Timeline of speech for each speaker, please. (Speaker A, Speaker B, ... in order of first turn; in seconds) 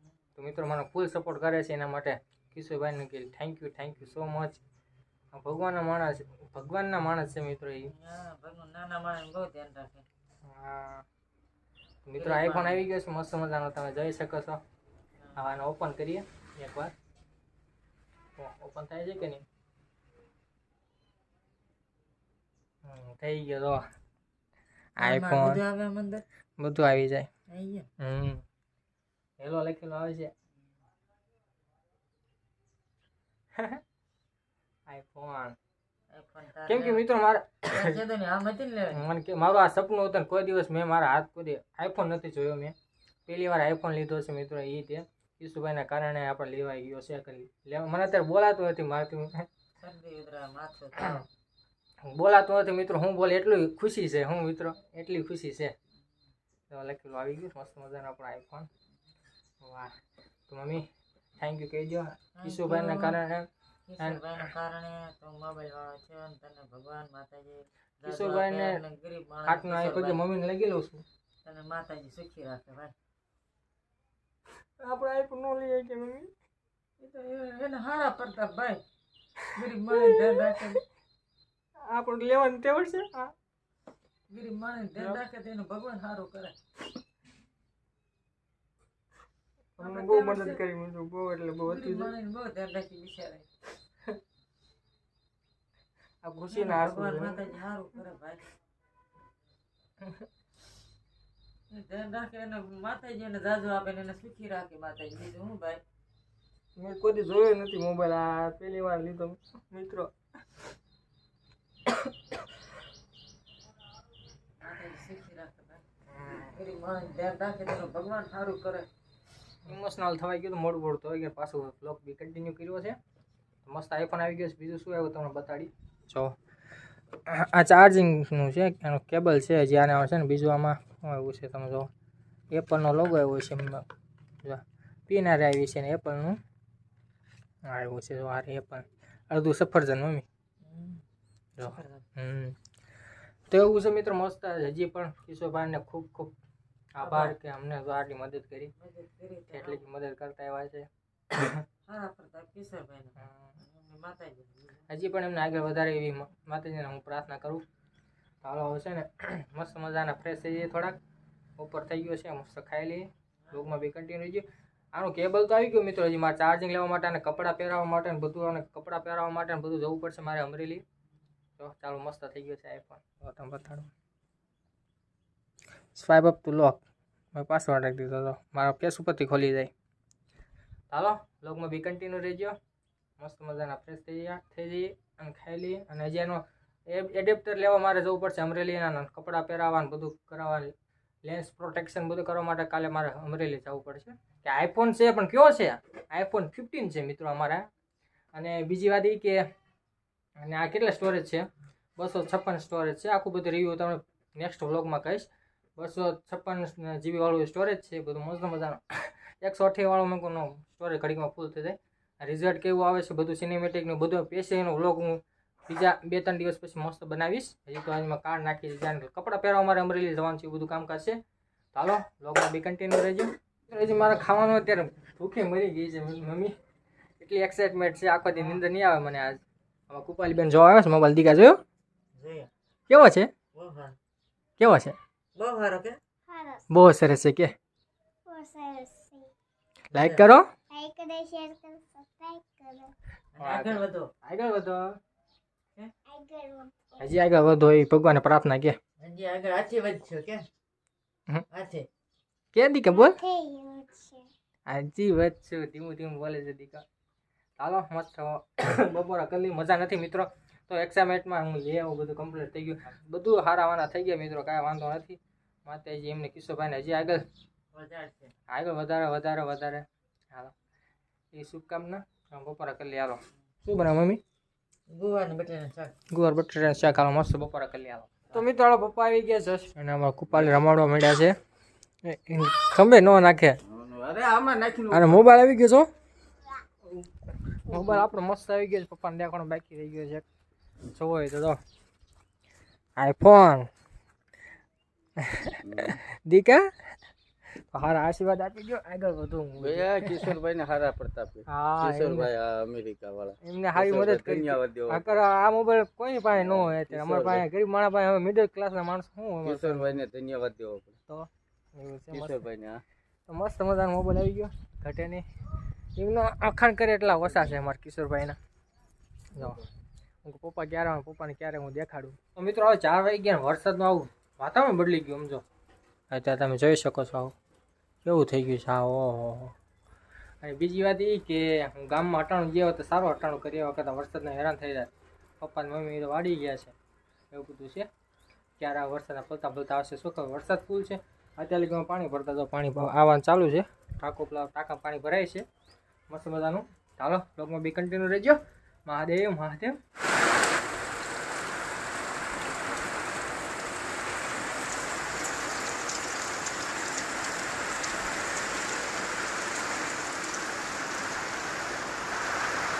Speaker A: 0.4-4.6, 5.3-7.9, 10.4-11.1, 12.0-14.6, 15.4-16.9, 18.4-19.4, 22.9-23.9, 25.0-25.6, 26.6-27.3, 28.0-28.4, 29.4-30.3, 33.6-33.8, 34.9-35.6, 36.7-38.0, 38.9-42.7, 43.3-49.5, 52.0-55.7, 56.7-58.7, 59.6-60.0, 60.5-60.9, 61.4-63.5, 68.0-68.8, 69.5-71.0, 74.8-76.3, 79.4-80.8, 81.9-83.3, 89.8-92.1, 96.2-97.6, 106.8-110.1, 116.1-116.5, 119.7-123.0, 123.7-126.3, 127.3-131.9, 132.5-133.9, 134.4-136.4, 137.7-140.2, 141.6-142.6, 143.5-146.3, 146.9-148.7, 149.5-151.6, 153.2-153.6, 154.9-157.6, 158.4-161.0, 161.6-170.8, 171.6-173.9, 175.9-176.8, 177.3-179.7, 180.9-182.6, 183.2-190.7, 191.2-197.7, 198.3-199.4, 200.4-221.2, 221.7-226.6, 227.2-231.6, 232.9-233.3, 234.6-234.9, 236.7-237.5, 239.9-240.5, 243.4-245.0, 247.0-248.8, 252.5-253.2, 254.7-256.8, 257.6-267.2, 268.5-270.5, 271.3-274.2, 276.1-281.3, 282.1-283.6, 284.9-285.9, 287.6-290.2, 290.9-291.6, 293.0-293.7, 295.2-296.6, 297.7-300.3, 301.5-302.3, 303.4-310.0, 311.1-312.4, 313.3-315.2, 316.0-318.4, 319.4-319.6, 320.2-325.4, 326.1-327.4, 328.0-329.6, 330.4-336.8, 337.3-337.9, 338.6-345.5, 346.1-349.8
Speaker B: 7.8-10.1, 12.2-12.9, 25.0-26.2, 27.5-27.9, 36.1-37.1, 37.6-39.1, 49.8-51.3, 62.4-63.2, 63.9-70.2, 71.5-73.0, 77.0-78.8, 79.5-80.8, 84.3-86.5, 89.8-90.6, 91.6-93.5, 96.5-98.4, 101.7-105.8, 114.6-115.8, 116.4-118.9, 140.6-141.1, 141.7-142.1, 147.0-147.4, 148.8-149.8, 151.9-154.8, 232.2-232.5, 233.6-233.9, 235.4-236.0, 239.9-240.2, 243.4-244.1, 249.0-250.4, 251.5-251.9, 267.7-268.3, 274.9-275.9
Speaker C: 236.3-236.7, 238.3-239.3, 240.7-242.9, 246.1-247.1, 252.9-254.3
Speaker D: 283.7-285.2, 295.6-296.0, 299.6-305.2, 306.4-307.4, 309.4-310.9, 312.1-312.8